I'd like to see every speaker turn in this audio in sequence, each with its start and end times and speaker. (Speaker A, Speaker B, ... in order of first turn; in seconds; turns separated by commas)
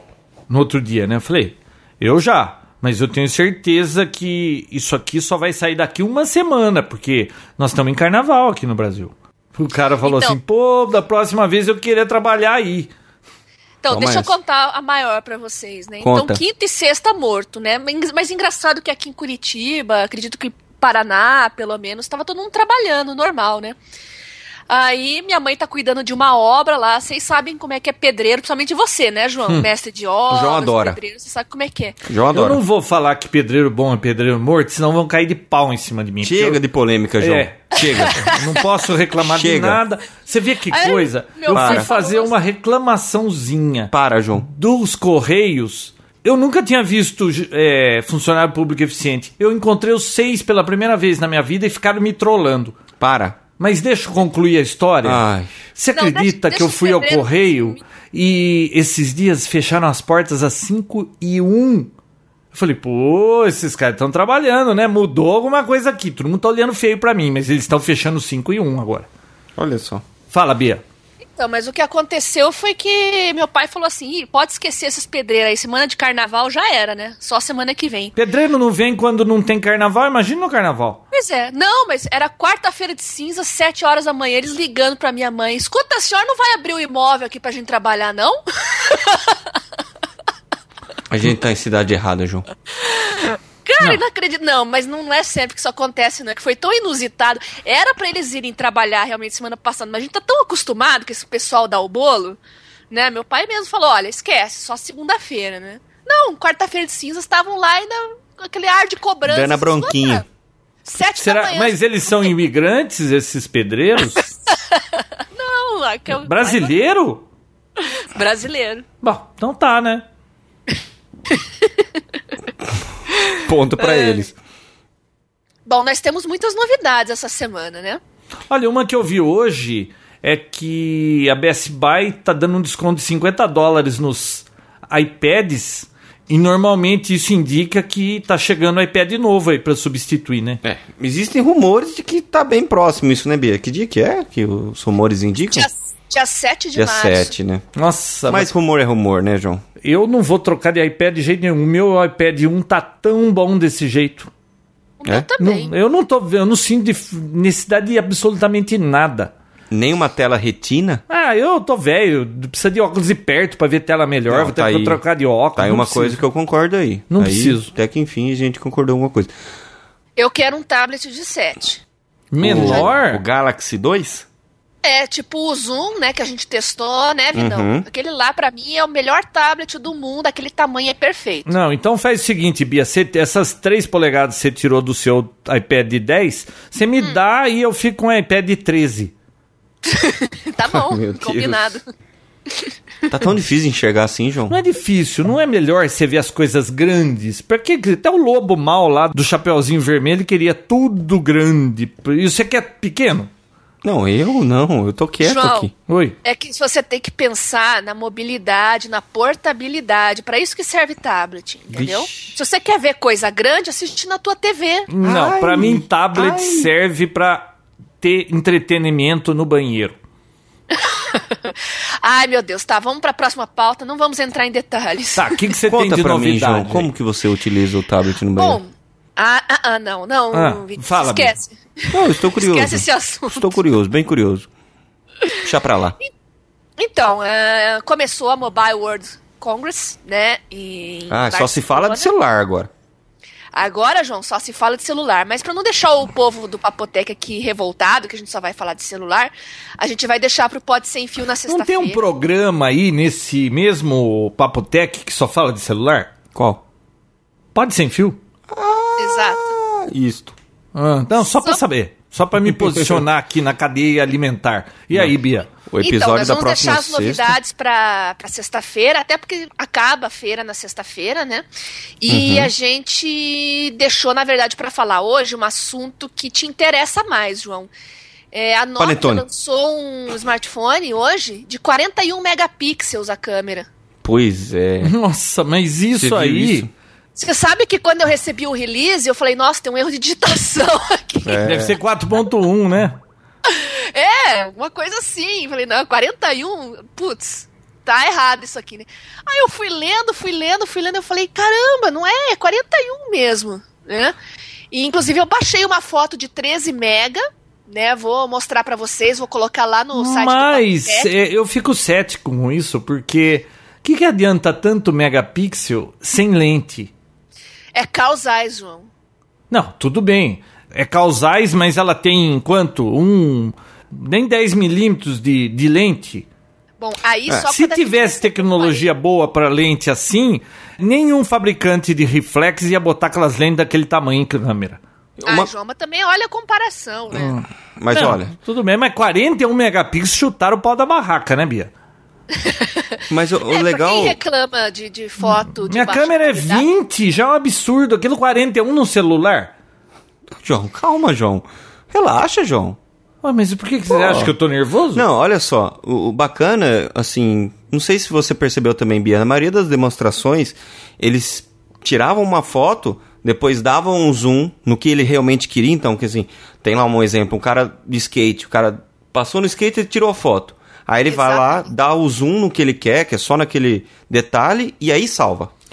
Speaker A: 0.5-12.9, Speaker B: 10.0-10.4, Speaker B: 13.8-23.8, Speaker C: 13.9-14.3, Speaker C: 16.0-16.4, Speaker B: 24.7-32.0, Speaker C: 30.3-31.0, Speaker C: 32.0-32.6, Speaker A: 32.3-36.6, Speaker C: 36.2-38.3, Speaker A: 37.2-52.8, Speaker B: 37.8-38.4, Speaker C: 39.2-39.8, Speaker B: 40.7-42.3, Speaker C: 41.5-41.9, Speaker C: 43.9-44.5, Speaker C: 53.0-53.4, Speaker A: 53.6-55.2, Speaker C: 55.0-55.6, Speaker A: 55.7-61.9, Speaker B: 55.9-57.8, Speaker A: 62.5-69.1, Speaker C: 69.5-70.0, Speaker A: 70.3-70.8, Speaker B: 71.3-78.1, Speaker A: 78.2-81.0, Speaker B: 81.1-89.4, Speaker C: 91.1-92.5, Speaker B: 92.8-102.4, Speaker B: 102.9-110.2, Speaker C: 109.3-110.2, Speaker B: 110.8-111.8, Speaker A: 111.1-114.3, Speaker B: 114.7-116.7, Speaker A: 116.2-117.2, Speaker B: 117.8-118.8, Speaker A: 119.0-120.0, Speaker B: 121.3-121.8, Speaker B: 123.2-124.3, Speaker C: 123.4-124.3, Speaker B: 125.7-128.0, Speaker A: 128.5-140.6, Speaker C: 140.6-145.7, Speaker B: 145.5-147.3, Speaker C: 146.7-147.6, Speaker A: 147.7-148.5, Speaker C: 148.3-149.6, Speaker A: 149.8-154.3, Speaker B: 155.0-155.7, Speaker A: 155.4-159.3, Speaker C: 159.7-161.0, Speaker A: 161.1-166.2, Speaker C: 164.3-165.0, Speaker C: 165.6-169.3, Speaker A: 167.1-167.7, Speaker B: 170.2-171.8, Speaker A: 172.3-173.2, Speaker C: 172.4-174.2, Speaker B: 172.5-172.8, Speaker B: 174.8-181.5, Speaker C: 177.3-177.8, Speaker A: 181.5-189.1, Speaker B: 189.8-191.8, Speaker C: 190.7-191.8, Speaker C: 193.1-194.6, Speaker A: 194.5-203.3, Speaker C: 203.8-205.7, Speaker B: 205.2-205.7, Speaker A: 205.9-206.2, Speaker B: 206.2-214.9, Speaker C: 211.7-212.3, Speaker A: 214.9-217.5, Speaker C: 215.0-216.7, Speaker A: 218.0-220.0, Speaker B: 220.7-225.4, Speaker A: 225.1-226.9, Speaker C: 225.7-228.6, Speaker B: 228.3-233.6, Speaker A: 230.3-231.3, Speaker C: 231.9-234.5, Speaker C: 235.4-236.0, Speaker B: 236.8-242.1, Speaker C: 241.1-242.7, Speaker B: 243.5-252.0, Speaker A: 251.5-256.1, Speaker C: 256.3-256.6, Speaker A: 257.5-258.2, Speaker C: 258.5-260.4, Speaker B: 259.0-259.4, Speaker A: 260.7-265.5, Speaker B: 261.2-261.6, Speaker C: 262.5-263.0, Speaker C: 265.7-267.4, Speaker B: 265.8-271.4, Speaker B: 272.0-277.7, Speaker C: 272.1-272.5, Speaker B: 278.3-283.7, Speaker C: 278.8-279.2, Speaker C: 284.0-284.9, Speaker A: 284.8-286.7, Speaker C: 285.9-286.7, Speaker B: 287.1-291.4, Speaker C: 291.2-291.8, Speaker A: 291.4-292.9, Speaker B: 293.4-304.1, Speaker B: 304.7-311.1, Speaker A: 309.9-316.9, Speaker B: 317.7-318.9, Speaker A: 319.5-326.2, Speaker B: 326.8-328.9, Speaker A: 327.4-334.8, Speaker C: 335.2-335.5, Speaker B: 335.2-337.4, Speaker A: 337.1-341.7, Speaker C: 337.8-338.3, Speaker B: 342.3-346.6, Speaker C: 343.1-344.2, Speaker A: 345.6-349.5, Speaker C: 350.3-352.8, Speaker A: 353.2-355.0, Speaker C: 353.9-354.3, Speaker C: 354.9-375.5, Speaker B: 371.1-371.7